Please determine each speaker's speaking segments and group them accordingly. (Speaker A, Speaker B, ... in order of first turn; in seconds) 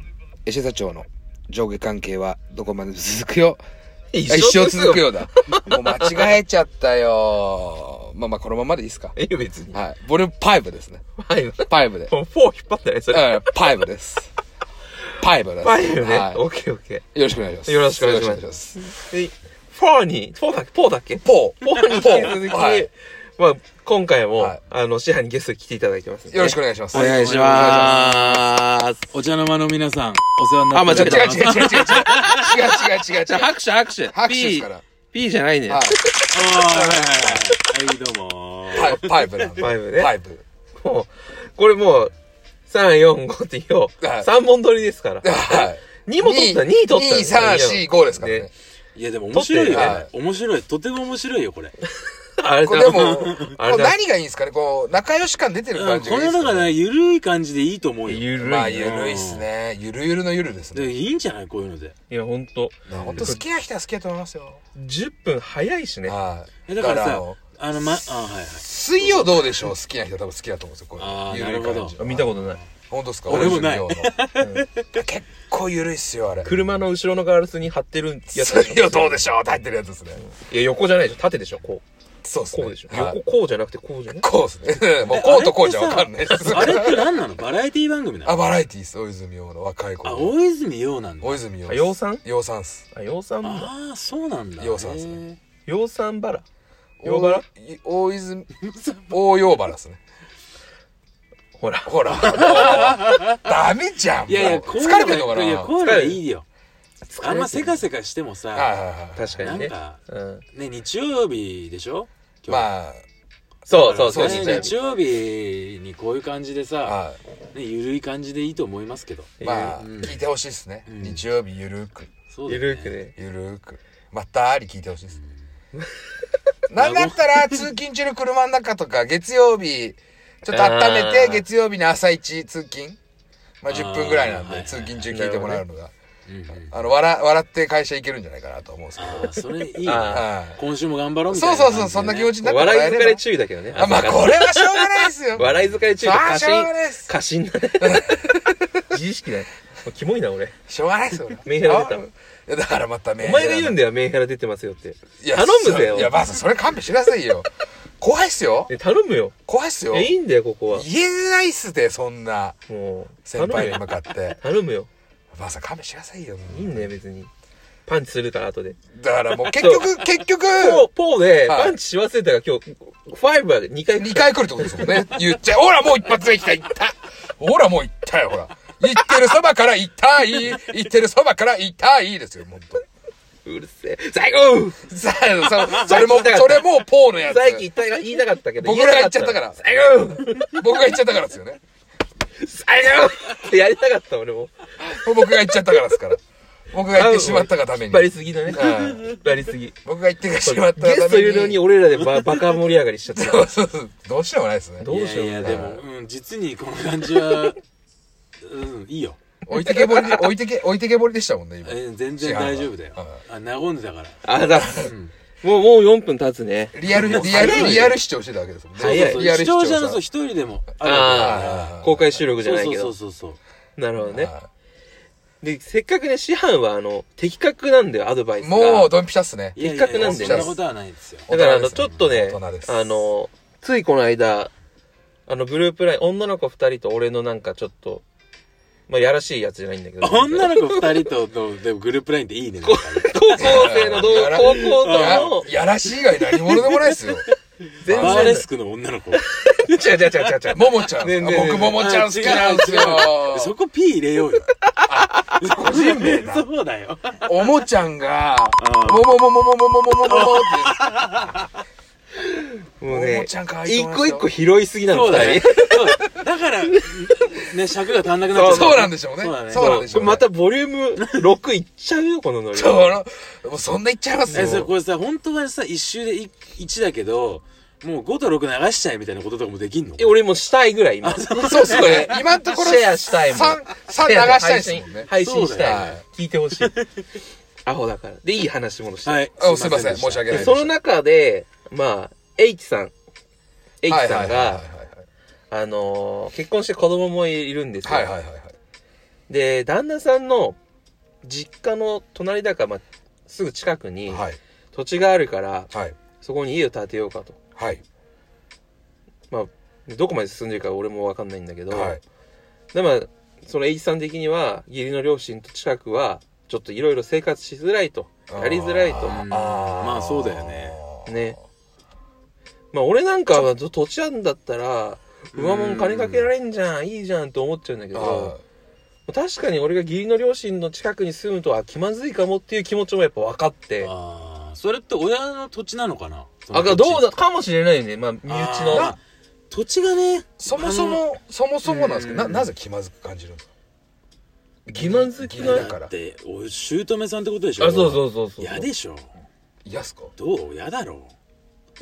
Speaker A: 0.5-3.6, 4.3-9.2, 9.7-11.0, 11.7-12.1, 13.1-14.3, 15.2-16.4, 17.1-18.8, 21.2-22.9, 26.3-28.4, 30.9-33.5, 34.1-34.8, 35.7-36.0, 38.7-40.4, 44.0-44.3, 45.2-48.5, 49.7-50.1, 52.6-56.7, 58.4-60.9, 62.9-64.6, 66.0-67.5, 68.6-72.3, 72.9-74.1, 74.9-76.6, 78.3-80.2, 82.2-83.2, 84.1-87.0, 88.2-90.3, 91.2-92.8, 94.6-95.2, 97.0-98.5, 99.0-100.0, 101.8-105.7, 108.5-109.3, 112.5-113.0, 113.8-114.7, 116.8-117.2, 119.4-122.1, 123.1-125.2, 126.7-133.0, 133.6-135.9, 136.6-139.3, 140.1-140.6, 141.3-147.1, 147.8-148.3, 150.7-153.8, 155.2-158.7, 159.4-160.1, 160.7-162.6, 163.2-164.4, 165.3-166.9, 168.9-170.9, 171.4-171.8, 174.0-182.8, 184.9-187.7, 188.6-189.9, 190.4-191.6, 194.8-196.2, 196.7-199.1, 199.8-201.7, 203.1-204.9, 205.4-205.8, 209.5-213.2, 214.5-214.9, 216.7-220.0, 220.9-222.1, 224.0-224.5, 228.4-230.6, 231.3-232.9, 243.4-247.2, 247.9-248.4, 250.5-253.5, 254.8-256.5, 257.2-260.9, 262.9-264.3, 268.4-270.3, 272.5-274.7, 281.4-286.0, 289.4-290.7, 293.9-295.0, 297.8-298.5, 304.1-304.4, 307.6-307.8, 311.7-312.0, 318.3-321.3, 327.9-328.4, 338.7-339.0, 340.4-343.4, 344.7-345.9, 349.6-350.1
Speaker B: 4.1-6.3, 9.1-9.8, 11.2-13.6, 15.6-17.0, 17.6-29.0, 30.7-31.8, 33.1-37.4, 39.6-40.1, 40.8-42.1, 42.7-48.5, 49.3-50.0, 52.4-54.0, 58.0-59.0, 62.1-63.4, 64.8-66.2, 72.0-72.6, 73.3-73.7, 74.4-74.7, 76.4-79.3, 80.2-81.8, 82.5-84.2, 86.3-86.8, 91.7-92.2, 92.9-93.7, 95.7-96.4, 97.0-97.4, 101.6-102.2, 105.8-106.2, 107.1-107.8, 109.2-110.4, 113.7-114.8, 119.4-119.8, 122.5-123.1, 130.5-131.4, 135.1-135.6, 139.8-140.3, 142.4-150.5, 151.4-152.0, 153.2-156.2, 158.7-159.3, 159.9-160.8, 162.7-164.9, 166.5-167.3, 167.8-168.8, 169.6-169.9, 170.5-175.2, 183.4-190.6, 192.4-195.0, 196.9-199.8, 200.4-203.5, 204.8-205.8, 209.5-210.3, 214.2-214.9, 215.4-218.0, 218.8-219.3, 220.8-222.9, 223.8-224.3, 225.4-229.0, 229.6-230.5, 231.3-234.5, 235.3-238.0, 238.9-240.9, 242.6-245.5, 247.8-248.4, 249.4-253.1, 262.2-266.1, 268.3-268.9, 269.5-273.0, 274.2-274.7, 280.0-286.7, 287.6-289.2, 290.3-292.9, 293.8-294.6, 295.5-298.1, 299.3-300.6, 301.2-307.4, 309.3-312.0, 312.7-319.3, 321.1-321.4, 322.7-328.4, 329.1-333.9, 336.5-338.9, 344.7-345.7, 347.6-348.7
Speaker C: 26.9-27.9, 29.1-32.7, 36.3-39.5, 49.0-51.8, 52.8-53.5, 55.7-59.5, 60.7-61.9, 62.9-63.4, 66.7-69.7, 71.0-72.0, 73.3-74.7, 85.1-88.5, 90.0-91.4, 93.4-95.4, 98.7-99.0, 102.2-103.4, 104.3-106.4, 107.2-108.7, 109.4-110.0, 110.5-112.7, 113.7-117.0, 117.5-120.2, 120.9-121.2, 122.3-122.9, 126.8-127.7, 133.7-135.1, 136.3-136.7, 138.9-142.4, 143.7-144.2, 202.0-202.3, 204.8-207.6, 208.4-209.2, 211.6-215.1, 216.9-217.9, 218.8-223.4, 229.6-231.3, 240.0-245.4, 246.2-247.3, 247.9-249.2, 251.6-254.5, 255.4-257.4, 258.6-259.2, 260.1-261.5, 264.9-269.9, 271.0-271.3, 274.3-280.2, 281.0-282.2, 285.2-285.9, 286.6-286.9, 289.0-290.6, 319.0-320.8, 325.3-326.3, 333.8-337.1, 338.2-339.0, 339.5-341.0, 341.6-342.5, 345.4-349.1, 350.1-351.1